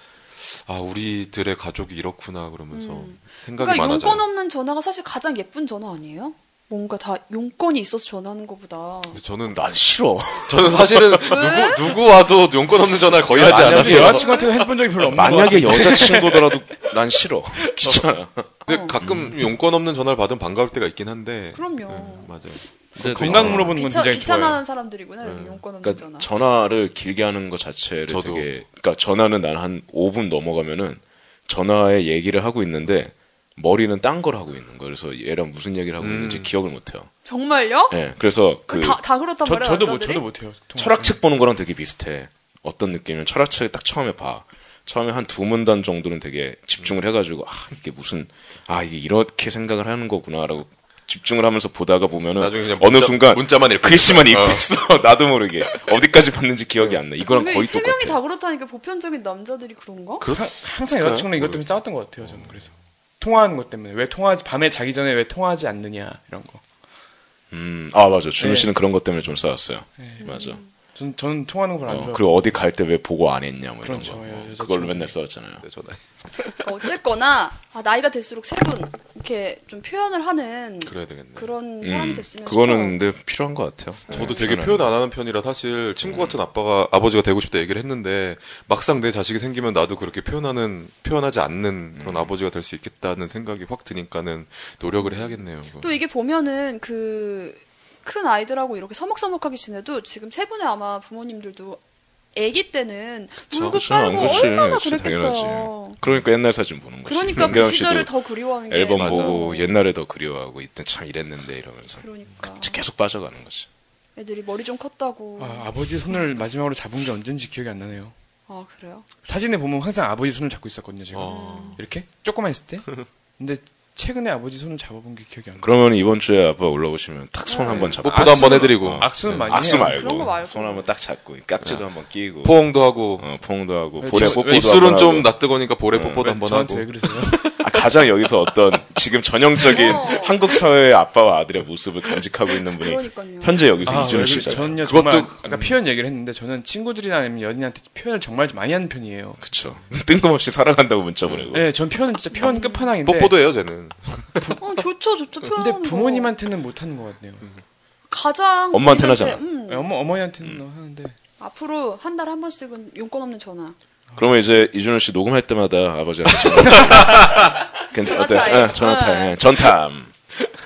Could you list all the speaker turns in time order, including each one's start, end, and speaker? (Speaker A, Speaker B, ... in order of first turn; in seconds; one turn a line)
Speaker A: 0.4-4.2
Speaker B: 2.7-9.2
Speaker A: 9.1-9.7
Speaker C: 9.5-11.2
Speaker A: 10.4-14.3
Speaker B: 11.2-11.9
Speaker D: 13.4-16.6
Speaker C: 13.4-14.2
Speaker B: 13.9-14.7
Speaker C: 15.1-19.4
Speaker A: 17.8-18.1
Speaker A: 18.6-22.6
Speaker B: 18.7-19.0
Speaker B: 21.5-22.4
Speaker D: 22.9-24.6
Speaker C: 23.0-23.8
Speaker B: 23.7-26.3
Speaker A: 25.2-25.6
Speaker C: 25.8-37.1
Speaker A: 28.1-28.5
Speaker A: 36.0-36.5
Speaker B: 37.2-38.0
Speaker C: 37.9-39.0
Speaker B: 38.7-40.2
Speaker D: 39.4-41.2
Speaker C: 40.8-58.2
Speaker A: 52.4-54.7
Speaker B: 57.3-60.2
Speaker A: 60.2-61.6
Speaker D: 60.3-66.6
Speaker A: 62.2-62.7
Speaker C: 67.5-70.6
Speaker D: 68.4-68.7
Speaker D: 70.0-70.3
Speaker B: 70.2-70.7
Speaker D: 71.0-72.5
Speaker C: 71.9-75.6
Speaker D: 73.8-75.1
Speaker A: 75.6-76.6
Speaker B: 76.6-83.0
Speaker A: 80.8-81.5
Speaker C: 81.8-84.9
Speaker B: 84.1-84.4
Speaker A: 84.1-95.9
Speaker C: 86.0-86.4
Speaker C: 92.0-92.3
Speaker B: 95.0-101.8
Speaker B: 102.3-106.0
Speaker C: 103.5-108.1
Speaker B: 107.1-109.7
Speaker C: 108.7-113.7
Speaker A: 109.0-109.4
Speaker B: 112.0-112.8
Speaker B: 114.2-116.2
Speaker D: 115.4-118.1
Speaker B: 118.5-119.1
Speaker D: 119.2-125.7
Speaker A: 121.1-121.8
Speaker B: 121.2-121.8
Speaker C: 125.6-132.6
Speaker B: 127.5-128.0
Speaker A: 128.0-129.5
Speaker D: 128.1-130.3
Speaker B: 129.7-130.9
Speaker A: 132.4-133.3
Speaker C: 133.2-135.3
Speaker D: 134.0-134.9
Speaker A: 134.1-137.8
Speaker C: 135.9-136.2
Speaker D: 136.2-137.6
Speaker C: 137.6-144.8
Speaker B: 139.7-140.4
Speaker B: 142.8-143.8
Speaker D: 143.8-149.4
Speaker A: 143.9-145.8
Speaker C: 149.4-151.7
Speaker A: 151.3-151.5
Speaker D: 151.5-153.4
Speaker B: 152.3-152.9
Speaker A: 153.0-154.6
Speaker B: 154.6-156.3
Speaker D: 155.5-157.5
Speaker B: 158.1-159.9
Speaker C: 158.7-159.4
Speaker D: 159.7-161.2
Speaker B: 161.4-163.8
Speaker C: 164.2-170.1
Speaker A: 166.3-167.4
Speaker D: 166.7-167.0
Speaker B: 167.9-169.4